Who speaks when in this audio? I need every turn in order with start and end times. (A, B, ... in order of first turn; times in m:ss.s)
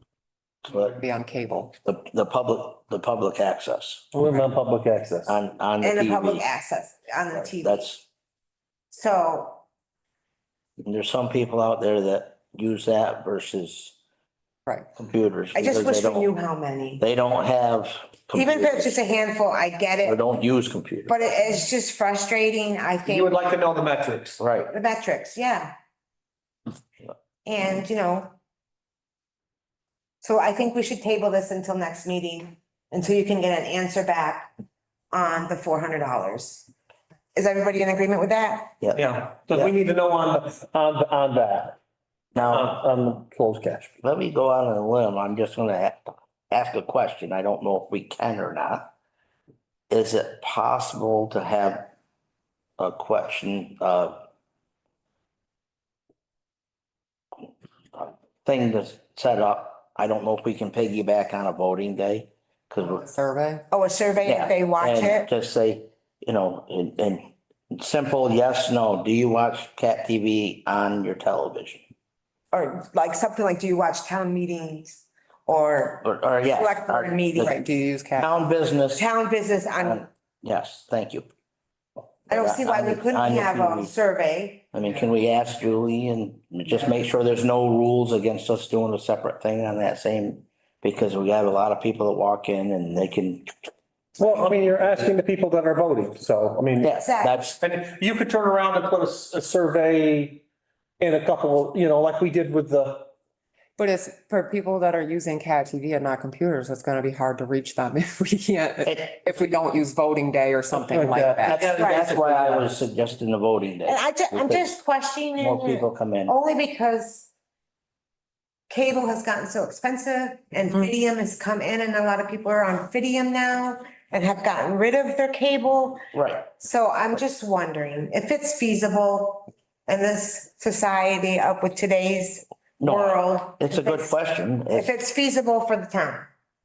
0:00.7-0:00.9 A
0:00.7-0:01.7 B
0:01.8-0:04.1 A
0:04.1-0:05.3 C
0:05.3-0:06.4 A
0:05.8-0:07.9 D
0:07.4-0:08.1 A
0:08.9-0:09.6 D
0:10.8-0:14.0 A
0:14.9-0:16.3 A
0:15.5-0:17.0 D
0:17.0-0:19.0 A
0:18.3-0:20.2 D
0:20.0-0:21.2 A
0:21.1-0:23.5 D
0:23.0-0:24.4 C
0:24.4-0:24.7 A
0:24.7-0:25.7 D
0:27.4-0:28.3 D
0:30.2-0:34.5 D
0:35.1-0:36.7 D
0:37.3-0:38.8 D
0:39.0-0:41.8 C
0:42.3-0:42.7 A
0:42.4-0:43.9 C
0:44.0-0:48.9 A
0:49.9-0:51.9 A
0:52.8-0:54.2 A
0:57.9-1:03.0 A
1:02.8-1:03.6 B
1:03.7-1:05.3 D
1:04.2-1:11.8 A
1:12.5-1:17.6 D
1:16.0-1:17.6 A
1:17.4-1:18.3 B
1:18.2-1:19.0 A
1:18.9-1:20.0 D
1:19.8-1:21.3 A
1:22.3-1:24.7 D
1:22.3-1:23.9 A
1:24.7-1:33.5 A
1:34.2-1:36.9 C
1:36.8-1:37.6 A
1:37.0-1:37.4 D
1:37.6-1:40.4 C
1:41.0-1:43.1 C
1:43.8-1:51.6 B
1:48.8-1:49.2 A
1:50.8-1:52.7 C
1:51.4-1:54.7 A
1:51.8-1:52.2 D
1:53.8-1:57.3 D
1:55.4-1:56.3 A
1:58.7-2:14.2 D
2:06.1-2:06.5 A
2:12.8-2:14.9 A
2:14.7-2:16.3 D